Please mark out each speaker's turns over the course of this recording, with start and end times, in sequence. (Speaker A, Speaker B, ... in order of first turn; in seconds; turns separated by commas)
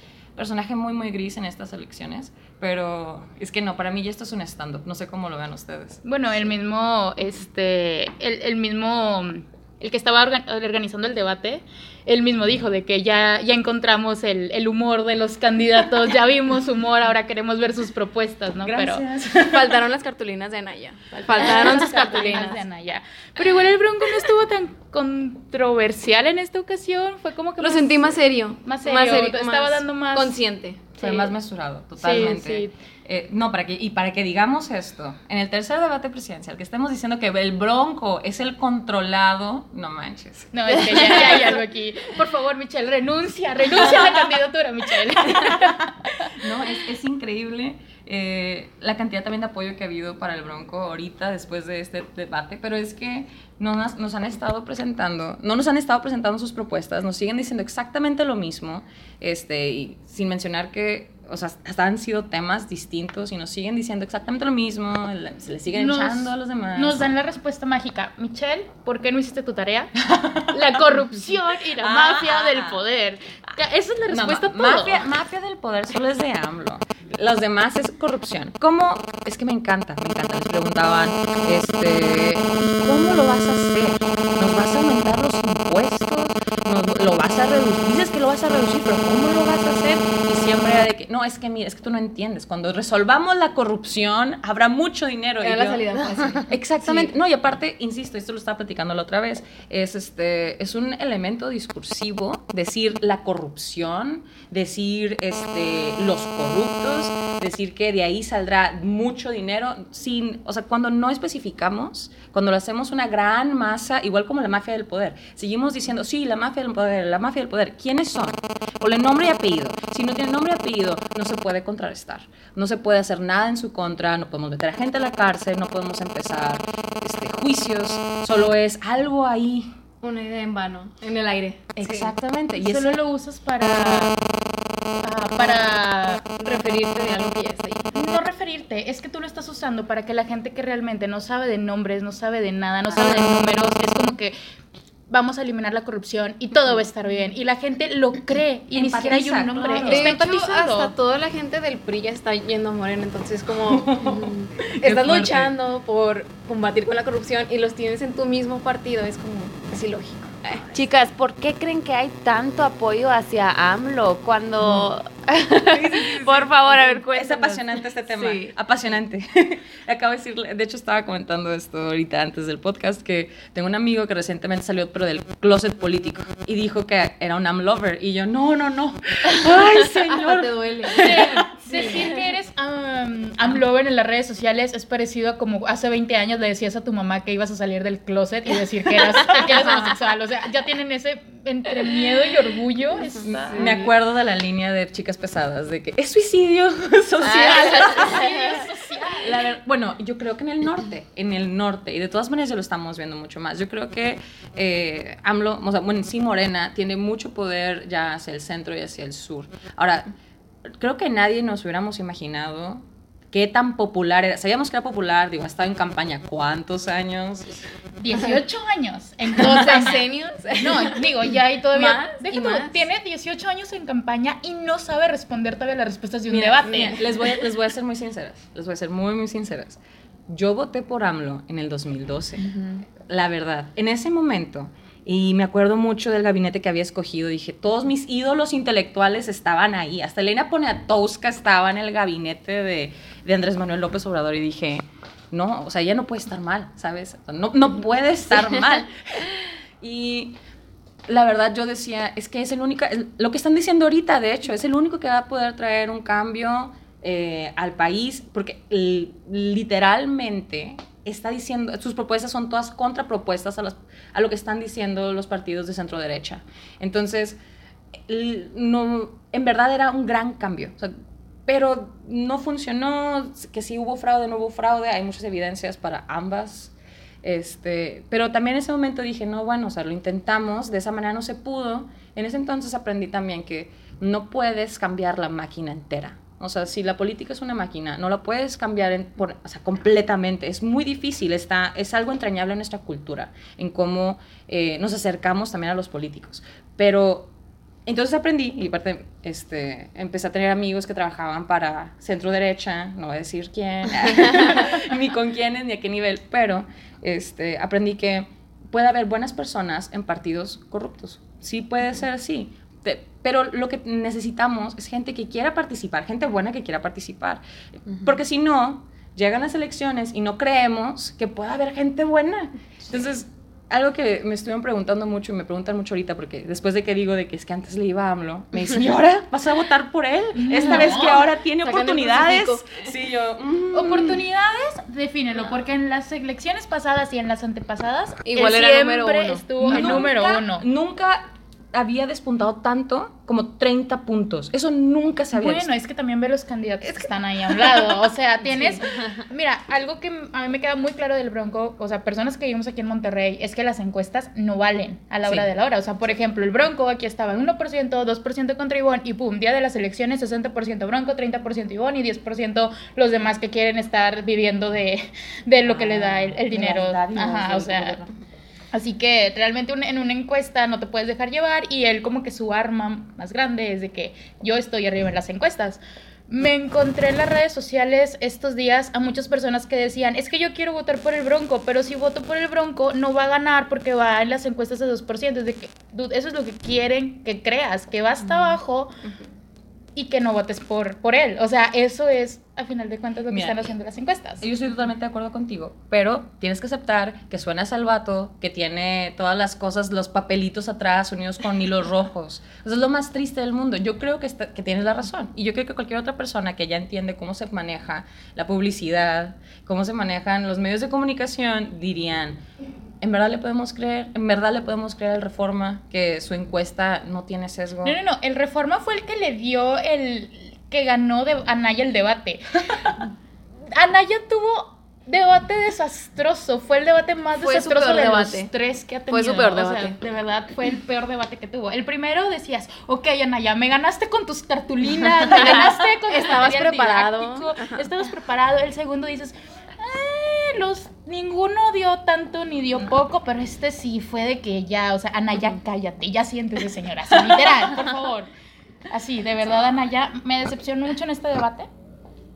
Speaker A: 0.3-6.0, Speaker B: 6.0-19.0, Speaker A: 18.6-19.9, Speaker C: 19.4-22.6, Speaker B: 21.2-30.4, Speaker C: 27.6-30.9, Speaker A: 31.0-41.6, Speaker B: 31.0-31.3, Speaker B: 32.0-32.7, Speaker B: 40.5-46.3, Speaker A: 45.4-45.7, Speaker A: 46.3-67.1, Speaker B: 65.7-69.9, Speaker A: 70.0-70.5, Speaker B: 70.5-75.0, Speaker A: 71.8-72.8, Speaker A: 74.1-95.8, Speaker C: 95.4-97.1, Speaker A: 96.5-129.7, Speaker C: 130.0-132.1, Speaker A: 131.8-133.0, Speaker B: 132.5-134.1, Speaker B: 135.0-136.2, Speaker C: 136.3-137.9, Speaker B: 137.9-144.3, Speaker B: 145.1-150.9, Speaker A: 148.7-150.1, Speaker C: 149.9-154.2, Speaker A: 153.7-155.5, Speaker D: 154.0-154.5, Speaker C: 154.8-160.6, Speaker D: 160.7-168.5, Speaker A: 165.7-182.0, Speaker C: 180.0-182.1, Speaker B: 180.9-193.7, Speaker C: 189.4-189.9, Speaker C: 193.1-193.8, Speaker A: 193.2-210.1, Speaker D: 197.2-198.3, Speaker B: 197.3-199.5, Speaker A: 210.7-217.6, Speaker B: 218.0-220.0, Speaker C: 219.5-221.0, Speaker B: 220.5-227.0, Speaker C: 221.7-222.8, Speaker A: 226.3-232.4, Speaker C: 226.7-226.9, Speaker D: 232.4-232.8, Speaker A: 233.1-250.4, Speaker A: 251.1-267.4, Speaker A: 268.1-270.9, Speaker A: 271.5-297.3, Speaker A: 297.9-317.4, Speaker A: 317.9-334.2, Speaker B: 330.3-331.2, Speaker C: 330.8-332.8, Speaker B: 333.7-340.6, Speaker C: 338.2-340.0, Speaker A: 339.6-345.7, Speaker B: 345.3-368.0, Speaker A: 355.2-355.5, Speaker A: 365.6-368.1, Speaker B: 368.7-389.0, Speaker B: 389.9-394.5, Speaker A: 393.3-393.7, Speaker A: 394.4-412.4, Speaker A: 413.0-418.0, Speaker B: 417.8-422.9, Speaker B: 423.7-448.3, Speaker C: 427.4-428.5, Speaker C: 429.1-430.0, Speaker C: 435.2-437.9, Speaker B: 448.9-451.7